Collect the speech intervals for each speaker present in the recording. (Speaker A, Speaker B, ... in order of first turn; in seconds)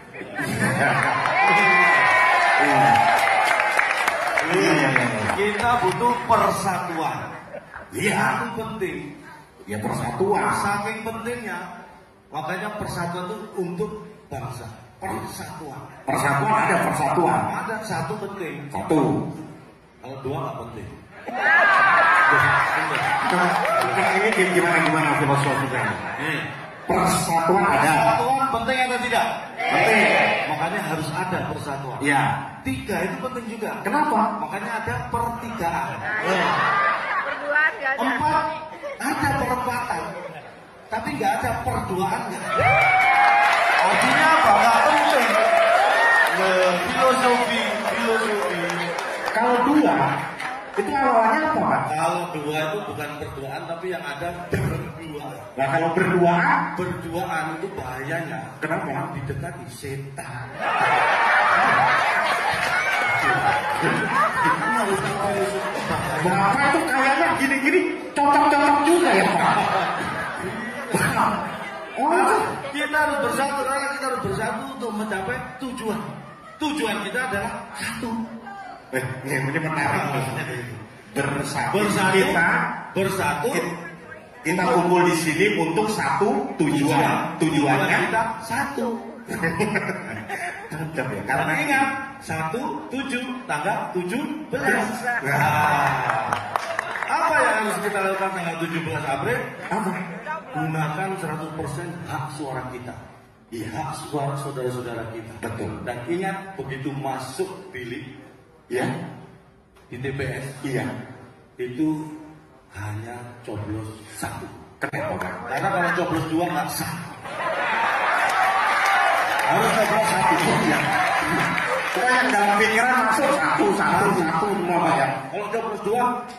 Speaker A: 0.4-1.3, 2.6-3.0, 4.5-5.3, 7.9-8.4, 9.7-10.7, 16.1-17.5, 18.7-19.2, 23.2-26.3, 26.9-28.2, 29.7-30.2, 32.0-32.4, 33.8-34.3, 49.3-50.0, 50.8-51.8, 55.5-56.6, 58.6-59.1, 66.2-69.7, 70.9-71.4, 72.0-72.5, 78.9-80.4, 81.1-82.7, 84.4-88.1, 89.3-91.9, 94.6-95.8, 99.7-100.0, 105.4-105.8, 110.6-110.9, 114.8-115.4, 120.5-120.8, 121.9-125.2
Speaker B: 1.4-2.1, 4.4-7.2, 8.0-9.1, 10.4-11.6, 12.3-15.9, 17.4-18.7, 20.0-20.9, 22.2-23.1, 23.7-24.1, 27.6-32.1, 32.6-33.8, 34.4-36.6, 38.0-38.5, 39.0-40.1, 40.9-42.8, 43.8-45.4, 46.3-48.9, 51.9-55.5, 56.7-60.6, 63.1-66.6, 69.6-71.2, 72.1-76.0, 76.6-78.2, 79.8-80.8, 81.7-83.7, 84.5-84.8, 86.7-89.0, 91.3-96.4, 97.1-99.5, 100.5-103.0, 103.6-108.1, 109.9-110.6, 111.6-112.1, 112.7-114.6, 115.5-117.2, 119.4-121.4, 123.8-124.4, 125.3-126.1